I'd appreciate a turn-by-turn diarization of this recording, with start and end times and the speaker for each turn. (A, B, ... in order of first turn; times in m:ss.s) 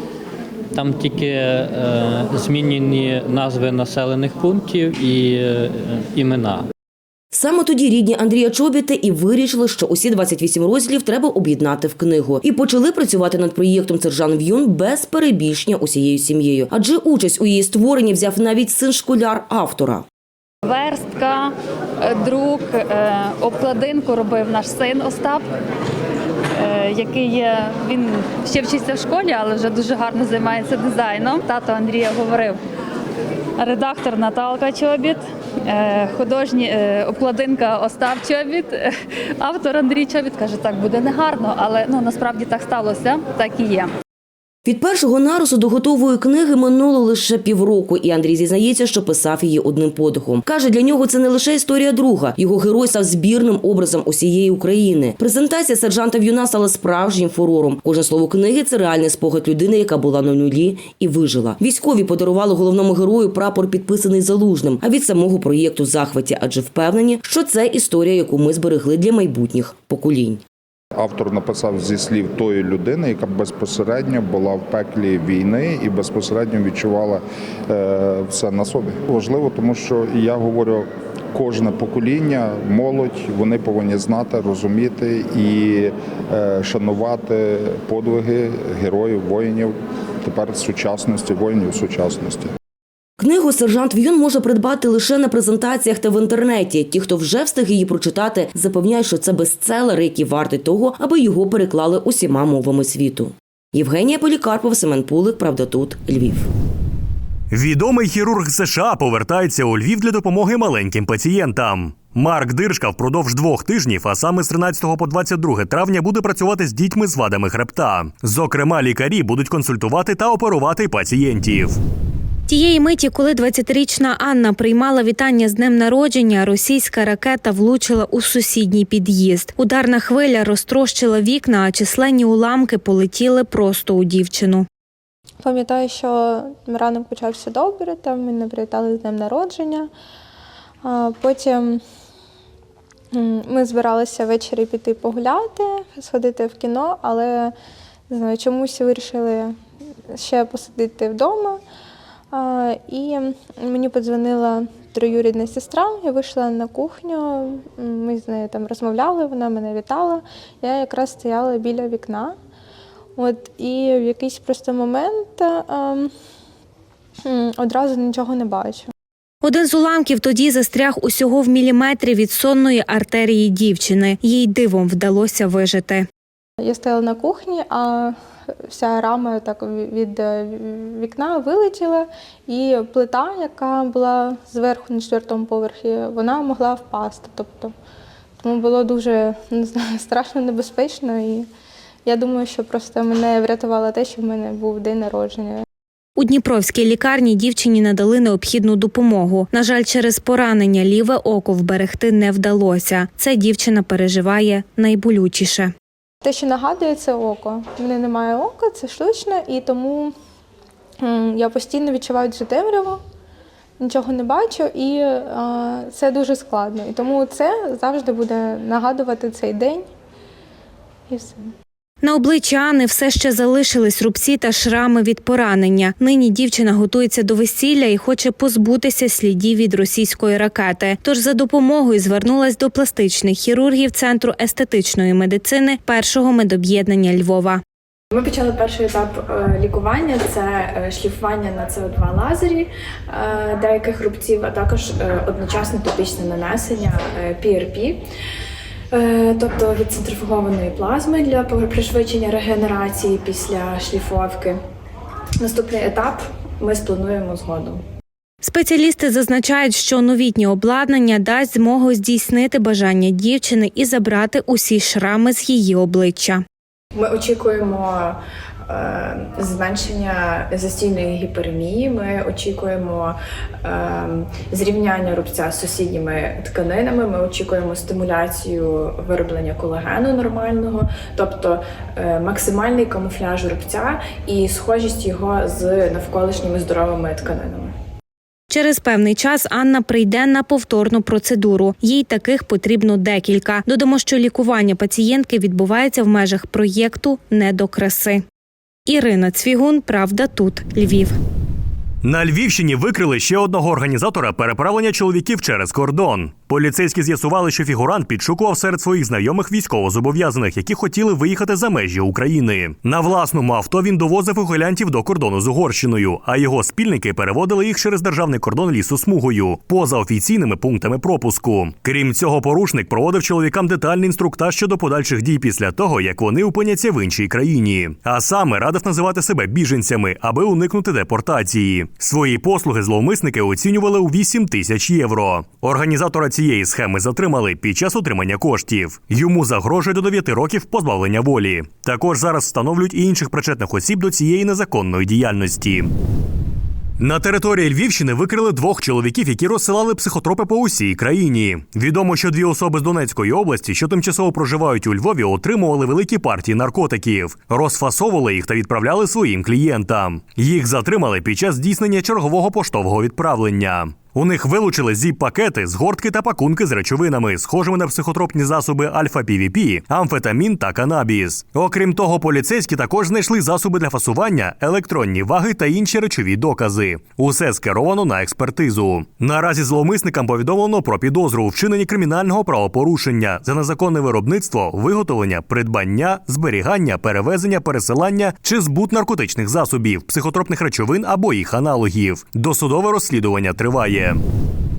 0:00.7-0:06.7 A
0:07.3-0:20.0 B
0:20.6-0:25.5 C
0:26.6-0:32.6 C
0:33.6-0:43.9 C
0:44.7-1:10.4 B
1:11.0-1:32.5 D
1:33.2-1:46.5 B
1:47.5-2:01.8 E
2:02.5-2:14.7 F
2:15.4-2:19.9 G
2:20.8-2:21.8 G
2:23.1-2:27.5 G
2:28.1-2:29.5 G
2:30.1-2:31.6 G
2:32.3-2:42.3 G
2:43.2-2:46.1 G
2:47.2-2:48.9 G
2:49.4-2:56.0 F
2:56.6-2:58.1 G
2:58.7-3:07.7 G
3:08.4-3:11.5 G
3:12.1-3:15.6 G
3:16.2-3:25.7 F
3:26.2-3:30.1 G
3:31.0-3:33.0 G
3:33.8-3:39.8 G
3:41.1-3:41.4 G
3:42.0-3:57.6 F
3:58.1-4:08.0 H
4:08.9-4:14.6 H
4:15.4-4:17.8 H
4:18.4-4:26.4 F
4:27.0-4:47.7 H
4:48.5-4:58.2 F
4:58.9-5:01.2 F
5:02.0-5:45.9 E
5:47.0-6:34.2 E